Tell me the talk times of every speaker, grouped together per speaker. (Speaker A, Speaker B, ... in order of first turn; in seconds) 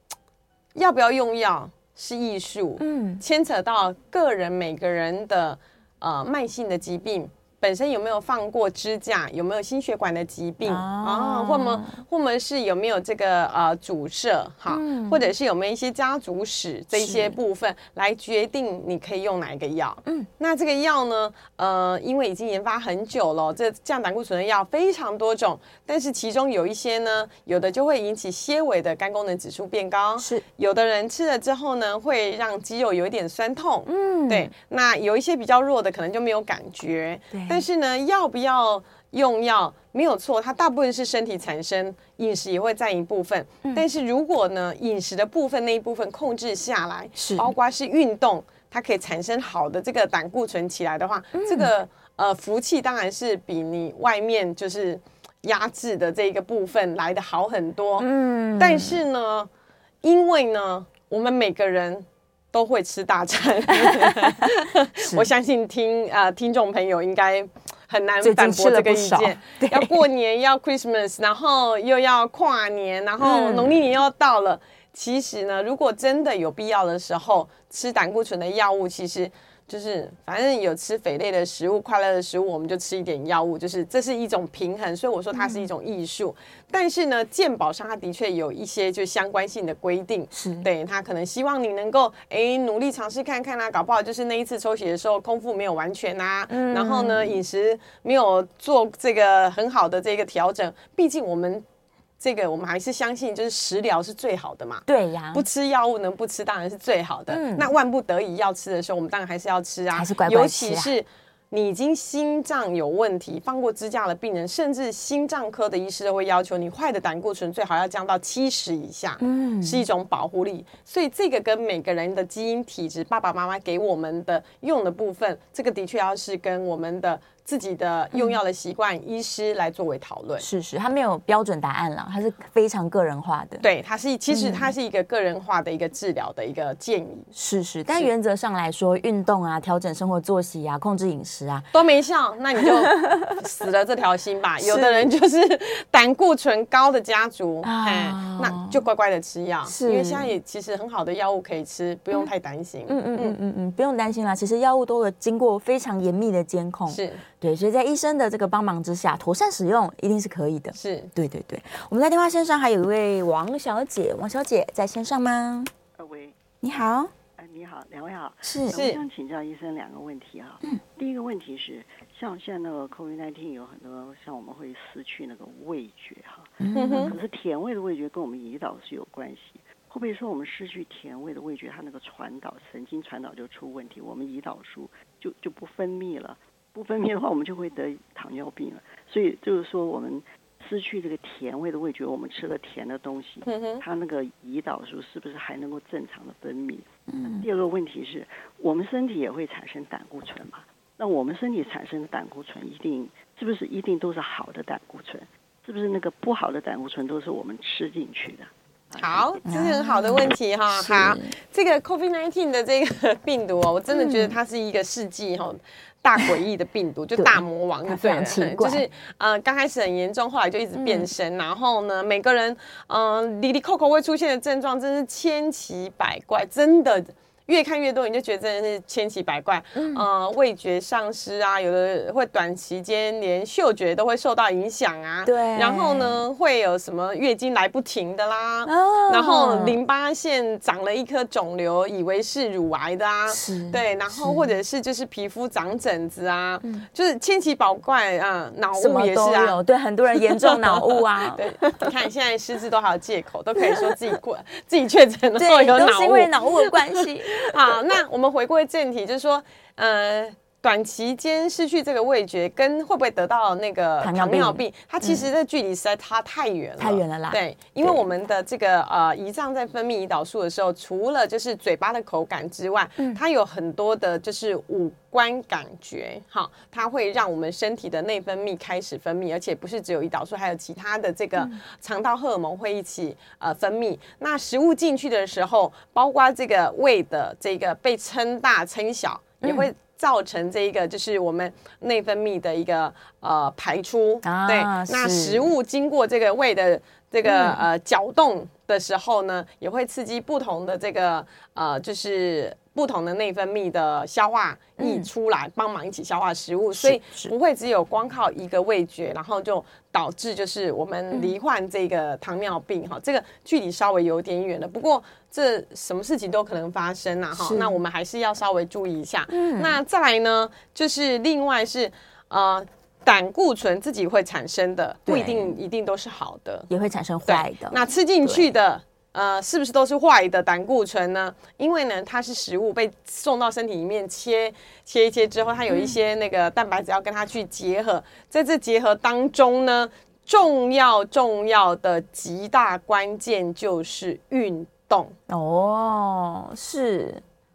Speaker A: 0.7-59.5, 60.0-101.6, 102.2-130.4, 133.6-137.3, 141.7-153.4, 156.9-157.2, 160.7-161.1, 168.7-169.0, 176.7-177.1, 193.4-193.8, 209.0-249.6, 250.1-326.7, 327.3-345.1
Speaker B: 2.8-3.2, 10.6-12.0, 14.7-15.3, 16.9-17.4, 30.2-30.4, 33.9-34.5, 37.3-37.6, 47.1-47.5, 51.4-51.7, 58.0-59.0, 63.8-64.3, 65.0-65.3, 68.2-70.0, 73.2-73.7, 85.4-85.7, 90.3-90.7, 96.5-97.4, 104.9-105.4, 107.3-107.7, 109.9-110.9, 119.2-119.9, 128.1-128.4, 130.4-133.7, 134.3-134.7, 137.3-141.7, 142.6-143.4, 144.6-145.1, 147.6-148.8, 149.7-150.3, 152.9-165.7, 166.6-167.1, 168.4-168.7, 176.6-177.2, 197.1-197.5, 209.4-211.3, 213.9-214.4, 217.2-218.8, 220.8-221.1, 229.7-230.1, 235.2-236.2, 238.6-239.8, 243.3-244.4, 248.7-251.8, 253.6-253.9, 255.4-257.5, 264.0-265.3, 266.8-268.0, 289.4-289.7, 294.2-295.5, 297.2-297.6, 304.8-305.1, 306.7-307.3, 317.3-317.8, 319.3-319.8, 325.1-325.6, 326.7-328.5, 335.7-335.9, 345.3-347.2
Speaker C: 166.0-166.4, 167.4-196.9, 197.4-209.3